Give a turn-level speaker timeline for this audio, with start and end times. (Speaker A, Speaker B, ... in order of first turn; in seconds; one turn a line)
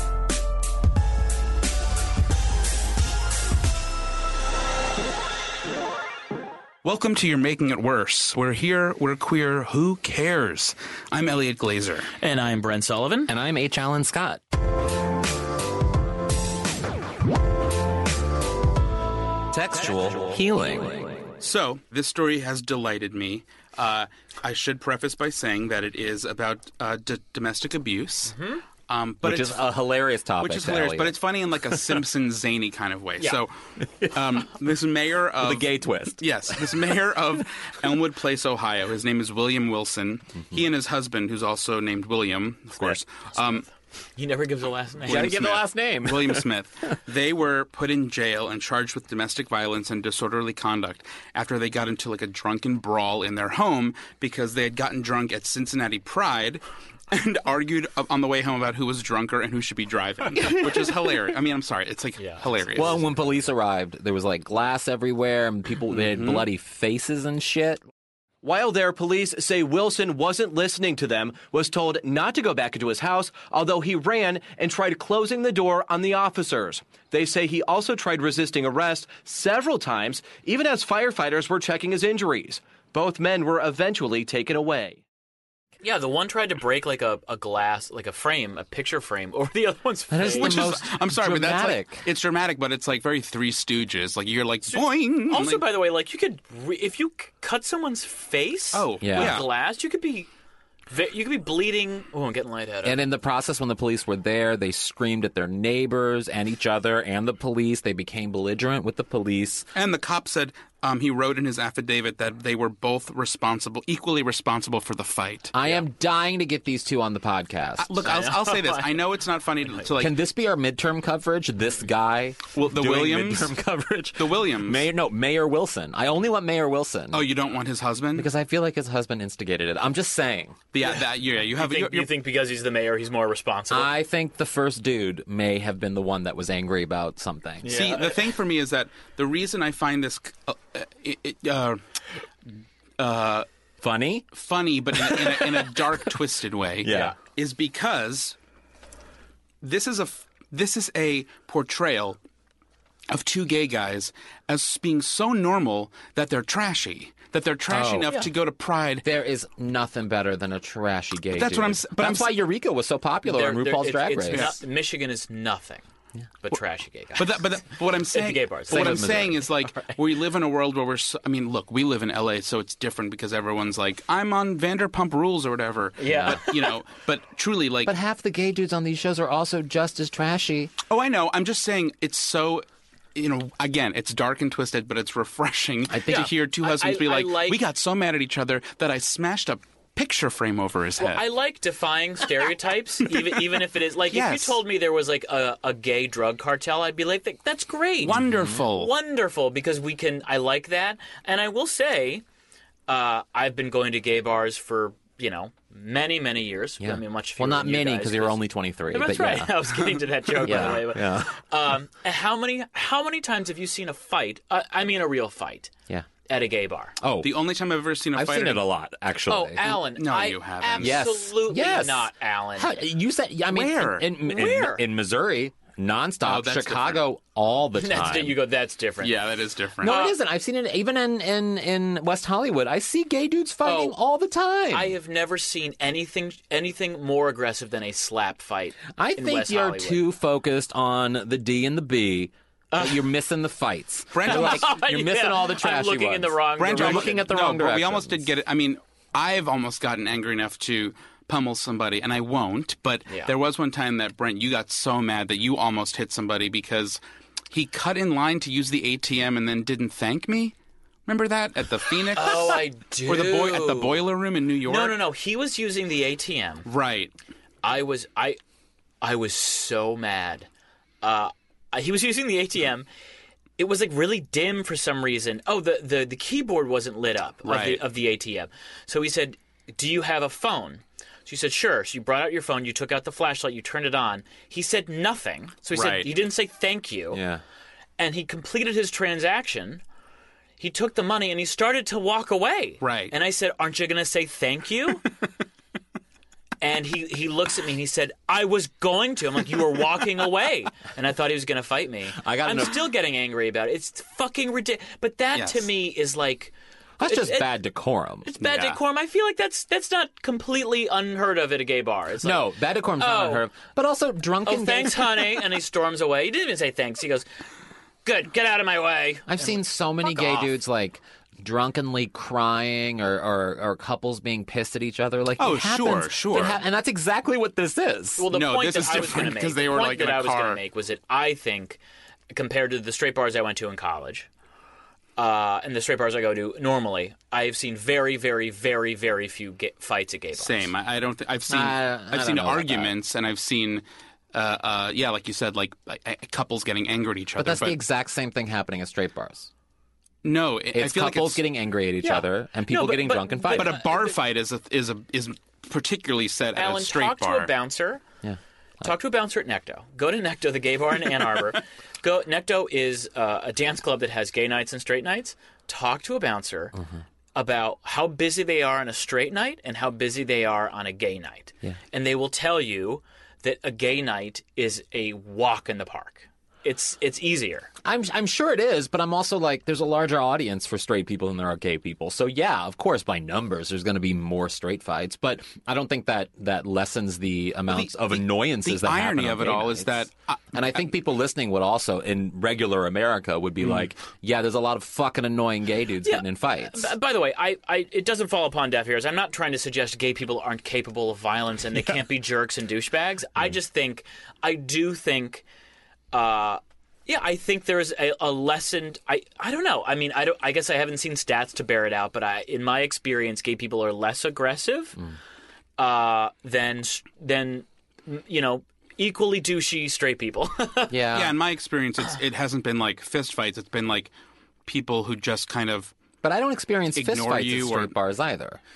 Speaker A: 6.8-12.1
Speaker B: 12.2-13.3
Speaker C: 13.3-14.4
Speaker D: 19.5-20.2
Speaker C: 20.0-21.2
Speaker A: 21.4-28.4
Speaker B: 28.3-28.6
Speaker A: 28.9-29.7
Speaker C: 29.2-31.2
Speaker A: 30.4-43.7
Speaker C: 35.4-36.9
Speaker B: 44.2-45.4
Speaker C: 45.1-46.5
Speaker A: 45.1-63.0
Speaker B: 62.2-63.0
Speaker C: 62.7-67.8
Speaker A: 65.9-66.5
Speaker D: 68.4-85.0
Speaker B: 85.8-90.8
Speaker C: 90.1-92.1
Speaker A: 90.3-95.7
Speaker B: 94.7-100.3
Speaker A: 98.7-99.5
Speaker C: 99.0-99.4
Speaker B: 100.9-103.0
Speaker C: 102.8-109.7
Speaker A: 109.8-115.6
Speaker C: 115.5-117.9
Speaker A: 117.8-120.1
Speaker B: 118.0-119.0
Speaker C: 120.0-127.3
Speaker A: 122.5-123.5
Speaker A: 124.2-124.9
Speaker A: 127.1-128.3
Speaker C: 128.2-130.6
Speaker A: 130.7-132.1
Speaker B: 131.5-133.9
Speaker C: 133.7-137.8
Speaker B: 137.6-138.2
Speaker A: 137.7-141.8
Speaker A: 143.0-143.5
Speaker C: 143.8-144.3
Speaker A: 144.3-148.4
Speaker C: 145.0-145.5
Speaker C: 146.8-147.2
Speaker B: 146.9-147.2
Speaker A: 149.6-152.2
Speaker A: 153.1-159.1
Speaker C: 157.7-158.1
Speaker C: 159.0-164.5
Speaker A: 161.3-162.4
Speaker B: 163.2-165.8
Speaker A: 164.3-164.6
Speaker B: 166.4-167.5
Speaker A: 167.2-177.9
Speaker B: 168.0-169.2
Speaker C: 168.7-169.5
Speaker B: 176.0-176.7
Speaker C: 176.1-176.4
Speaker C: 177.9-180.7
Speaker A: 180.9-191.2
Speaker C: 185.9-186.3
Speaker B: 186.1-187.6
Speaker B: 191.0-202.2
Speaker A: 193.1-194.6
Speaker A: 198.0-198.9
Speaker C: 198.2-198.6
Speaker B: 202.9-215.7
Speaker C: 206.8-209.5
Speaker A: 210.3-210.7
Speaker C: 210.4-211.3
Speaker B: 216.3-217.0
Speaker C: 217.0-217.3
Speaker A: 217.2-218.6
Speaker C: 218.1-219.8
Speaker B: 219.3-222.8
Speaker A: 219.7-221.1
Speaker C: 220.8-228.4
Speaker A: 223.5-224.1
Speaker B: 224.2-224.8
Speaker A: 226.2-227.1
Speaker B: 227.8-229.2
Speaker A: 229.0-230.0
Speaker C: 229.8-234.9
Speaker B: 229.8-230.2
Speaker B: 233.7-233.9
Speaker B: 234.7-240.0
Speaker C: 238.9-248.3
Speaker B: 242.7-243.0
Speaker A: 244.1-244.8
Speaker B: 244.2-247.2
Speaker A: 246.6-257.0
Speaker A: 257.5-260.5
Speaker A: 261.1-265.0
Speaker B: 262.1-264.1
Speaker B: 264.6-266.7
Speaker A: 266.7-267.1
Speaker B: 267.6-268.4
Speaker B: 269.0-270.5
Speaker B: 271.0-272.9
Speaker B: 273.6-287.2
Speaker A: 277.4-277.8
Speaker A: 285.7-286.1
Speaker C: 287.1-287.4
Speaker B: 288.0-289.8
Speaker B: 290.6-295.1
Speaker A: 292.8-293.1
Speaker B: 296.6-307.5
Speaker C: 302.2-302.9
Speaker A: 305.4-305.7
Speaker C: 307.0-308.3
Speaker B: 308.2-313.5
Speaker A: 308.4-308.8
Speaker C: 312.2-315.4
Speaker B: 314.5-317.3
Speaker B: 318.1-320.5
Speaker C: 319.3-328.3
Speaker A: 325.4-326.6
Speaker B: 328.2-331.8
Speaker A: 328.3-330.6
Speaker B: 332.3-334.3
Speaker B: 335.2-340.7
Speaker A: 340.4-347.8
Speaker C: 341.5-342.9
Speaker C: 347.4-349.5
Speaker A: 350.2-351.4
Speaker C: 350.7-353.8
Speaker B: 352.0-354.1
Speaker A: 353.5-357.5
Speaker B: 356.6-358.0
Speaker C: 358.2-358.9
Speaker B: 358.8-366.8
Speaker B: 367.3-377.7
Speaker C: 377.9-390.0
Speaker A: 387.7-390.8
Speaker C: 390.5-396.9
Speaker B: 396.0-405.4
Speaker B: 406.1-415.0
Speaker B: 415.8-421.0
Speaker C: 420.9-421.4
Speaker A: 421.1-424.1
Speaker A: 424.7-425.9
Speaker C: 426.2-428.6
Speaker A: 426.9-427.9